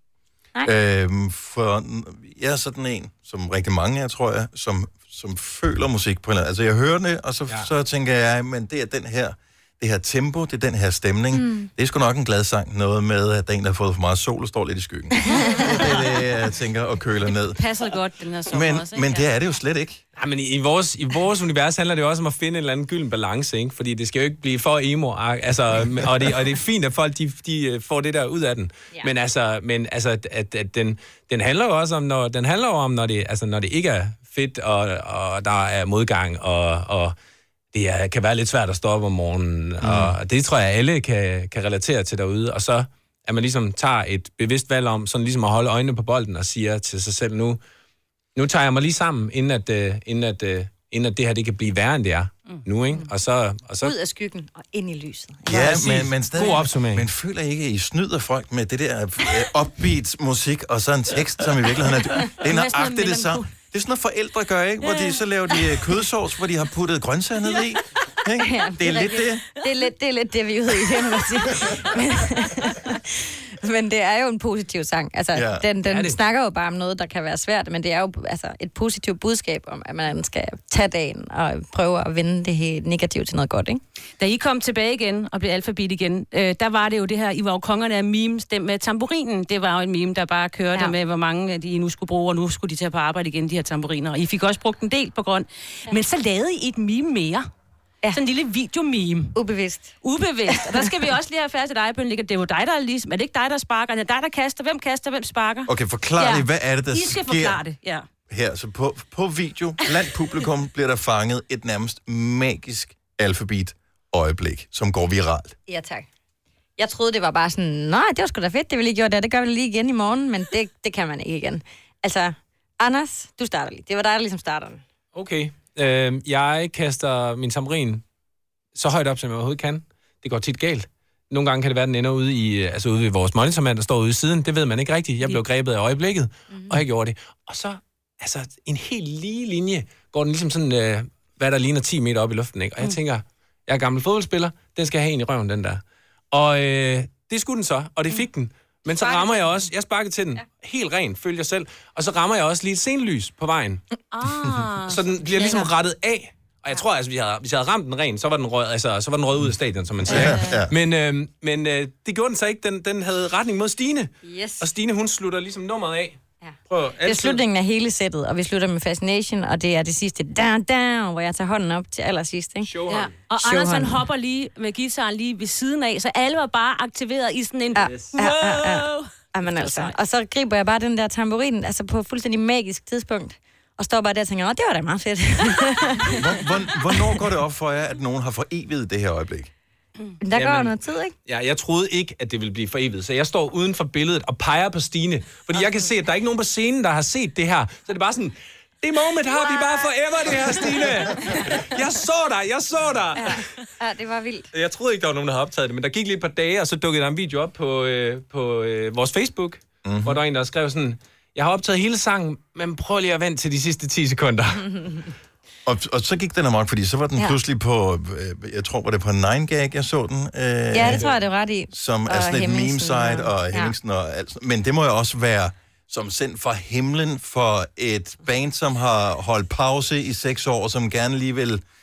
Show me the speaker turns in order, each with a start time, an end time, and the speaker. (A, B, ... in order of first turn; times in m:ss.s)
0:00.6-0:17.6 A
0:11.3-0:11.7 B
0:15.2-0:15.5 B
0:17.6-0:19.3 C
0:18.5-0:20.0 A
0:20.2-0:37.1 D
0:37.7-0:47.6 D
0:39.8-0:40.2 A
0:48.4-0:53.9 D
0:53.8-0:56.4 B
0:55.5-1:09.4 A
0:55.6-0:57.1 D
1:02.4-1:03.4 C
1:08.4-1:23.8 B
1:15.3-1:15.6 A
1:15.8-1:16.2 D
1:24.2-1:37.4 C
1:38.1-1:39.3 C
1:39.3-1:39.9 B
1:40.0-1:48.0 C
1:40.5-1:40.9 B
1:45.7-1:47.6 A
1:48.3-1:55.6 A
1:55.7-1:56.0 B
1:56.8-2:04.8 B
2:05.1-2:08.0 D
2:08.7-2:33.8 D
2:28.9-2:29.6 B
2:34.1-2:35.7 C
2:34.9-2:47.4 D
2:40.0-2:40.7 A
2:44.2-2:44.7 B
2:46.4-2:52.7 B
2:52.6-2:53.1 D
2:52.9-2:59.9 C
2:53.4-2:54.0 B
2:57.7-3:07.2 B
2:57.9-2:58.2 D
3:06.1-3:09.5 A
3:10.2-3:11.1 B
3:10.3-3:23.4 D
3:19.3-3:19.9 B
3:20.5-3:21.4 B
3:23.2-3:24.5 B
3:24.5-3:35.0 D
3:29.8-3:30.2 A
3:35.6-3:41.1 A
3:40.7-3:43.7 B
3:40.8-3:41.2 D
3:41.7-3:51.6 A